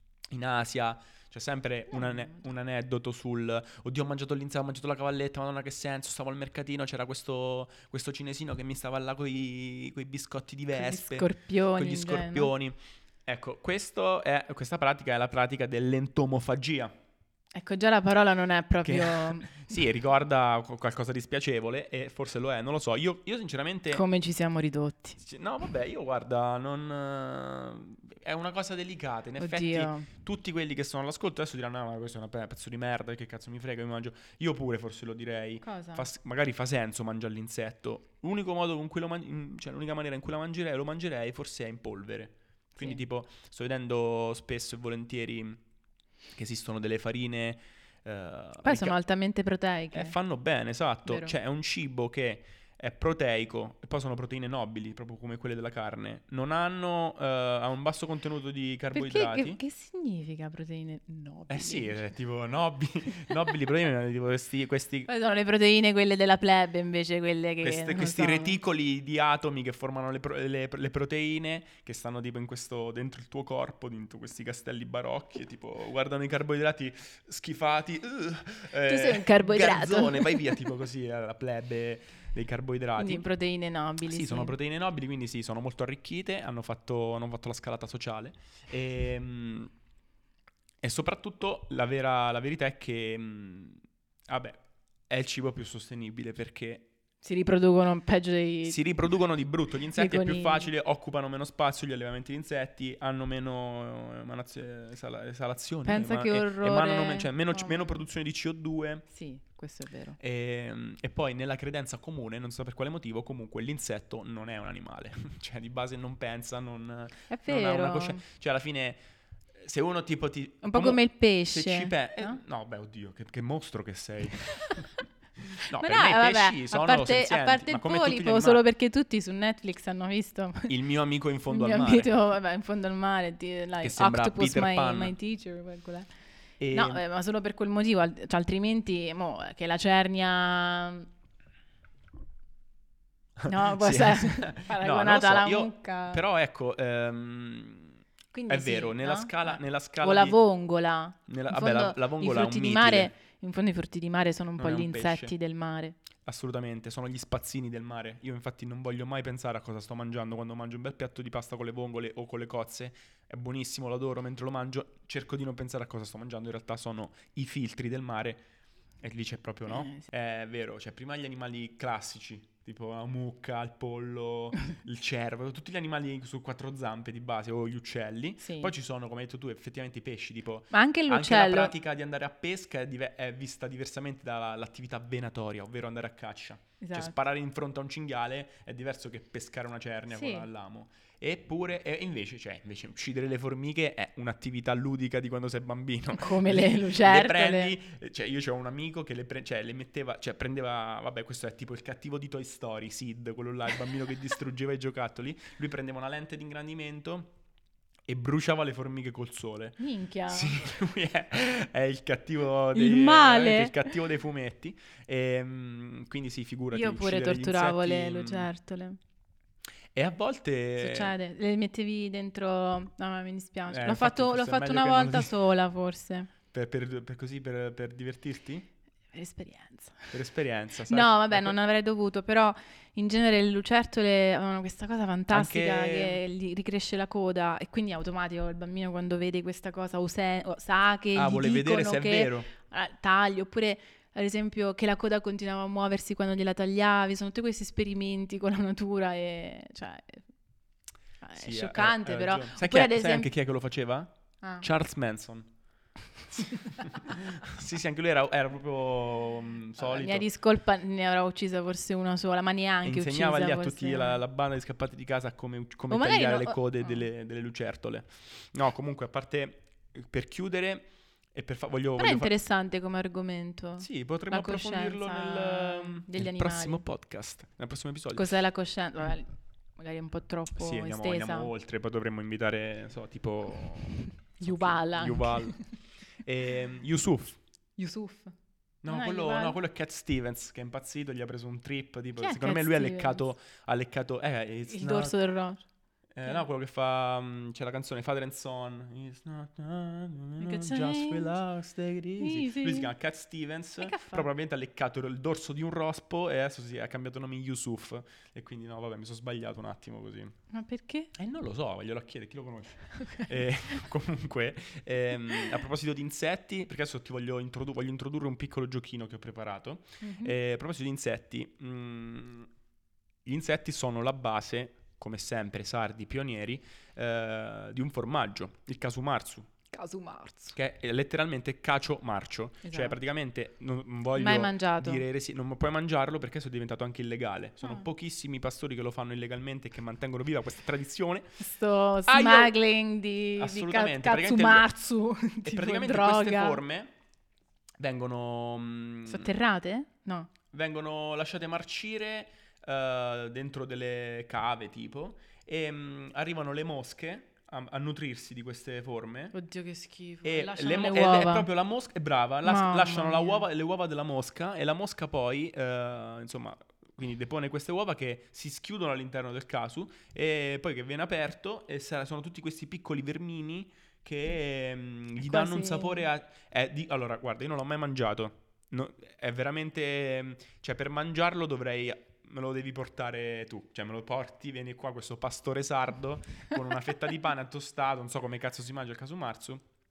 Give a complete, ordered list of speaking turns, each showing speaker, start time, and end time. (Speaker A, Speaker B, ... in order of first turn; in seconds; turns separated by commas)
Speaker A: 0.3-16.9, Speaker B: 1.9-2.4, Speaker B: 10.7-12.5, Speaker B: 17.5-19.5, Speaker A: 18.8-24.0, Speaker B: 23.9-25.2, Speaker A: 25.2-45.6, Speaker B: 29.4-30.1, Speaker B: 35.6-36.1, Speaker A: 46.3-49.0, Speaker B: 48.6-50.1, Speaker A: 49.9-59.6, Speaker B: 51.0-51.3, Speaker B: 58.9-62.0, Speaker A: 61.5-65.1, Speaker B: 65.1-68.6, Speaker A: 67.6-83.2, Speaker B: 78.8-80.6, Speaker B: 83.0-84.5, Speaker A: 84.0-89.7, Speaker A: 90.8-96.9, Speaker B: 97.2-98.8, Speaker A: 98.6-109.0, Speaker B: 99.9-100.7, Speaker B: 105.8-107.9, Speaker B: 109.1-110.2, Speaker A: 110.2-119.0, Speaker B: 117.3-118.2, Speaker A: 119.6-124.9, Speaker B: 120.6-122.4, Speaker A: 125.4-128.6, Speaker B: 125.7-130.7, Speaker A: 130.7-132.1, Speaker B: 131.5-136.1, Speaker A: 133.8-135.1, Speaker A: 136.6-137.0, Speaker B: 136.7-141.1, Speaker A: 143.4-150.4, Speaker B: 143.5-146.2, Speaker B: 148.3-155.9, Speaker A: 151.3-153.1, Speaker A: 154.6-155.3, Speaker A: 156.2-168.4, Speaker A: 169.0-207.3, Speaker B: 169.7-170.1, Speaker B: 178.4-178.7, Speaker B: 180.7-181.7, Speaker B: 186.8-187.1, Speaker B: 190.1-190.5, Speaker B: 196.1-197.7, Speaker A: 208.1-218.5, Speaker B: 209.8-210.6, Speaker B: 212.7-213.8, Speaker B: 216.7-219.0, Speaker A: 219.9-221.1, Speaker B: 220.8-226.3, Speaker A: 223.7-225.3, Speaker A: 226.5-228.7, Speaker B: 229.1-230.1, Speaker A: 230.1-231.6, Speaker B: 230.9-250.2, Speaker A: 235.3-236.2, Speaker A: 241.1-242.5, Speaker B: 251.2-253.3, Speaker A: 251.3-255.5, Speaker A: 256.3-260.2, Speaker B: 259.8-264.2, Speaker A: 262.8-272.3, Speaker B: 265.9-267.0, Speaker B: 272.0-276.8, Speaker A: 273.8-278.3, Speaker B: 278.1-281.5, Speaker A: 280.5-285.6, Speaker B: 284.4-285.6, Speaker A: 286.2-287.4, Speaker B: 287.8-288.3, Speaker A: 288.8-295.1, Speaker B: 288.9-289.6, Speaker B: 292.2-293.2, Speaker B: 294.7-295.6, Speaker A: 296.1-310.3, Speaker B: 300.4-301.4, Speaker B: 302.2-302.9, Speaker B: 303.8-304.3, Speaker B: 310.5-311.1, Speaker A: 311.1-322.5, Speaker B: 313.0-313.3, Speaker B: 320.0-320.4, Speaker A: 323.2-329.5, Speaker B: 329.7-330.6, Speaker A: 330.5-341.4, Speaker B: 332.6-333.0, Speaker B: 334.1-335.0, Speaker B: 341.4-346.6, Speaker A: 342.1-342.5, Speaker A: 343.4-344.7, Speaker A: 345.4-346.9, Speaker A: 347.8-349.3, Speaker B: 349.1-350.3, Speaker A: 350.5-359.3, Speaker B: 359.3-361.5, Speaker A: 360.2-389.6, Speaker B: 362.4-363.4, Speaker B: 375.2-376.1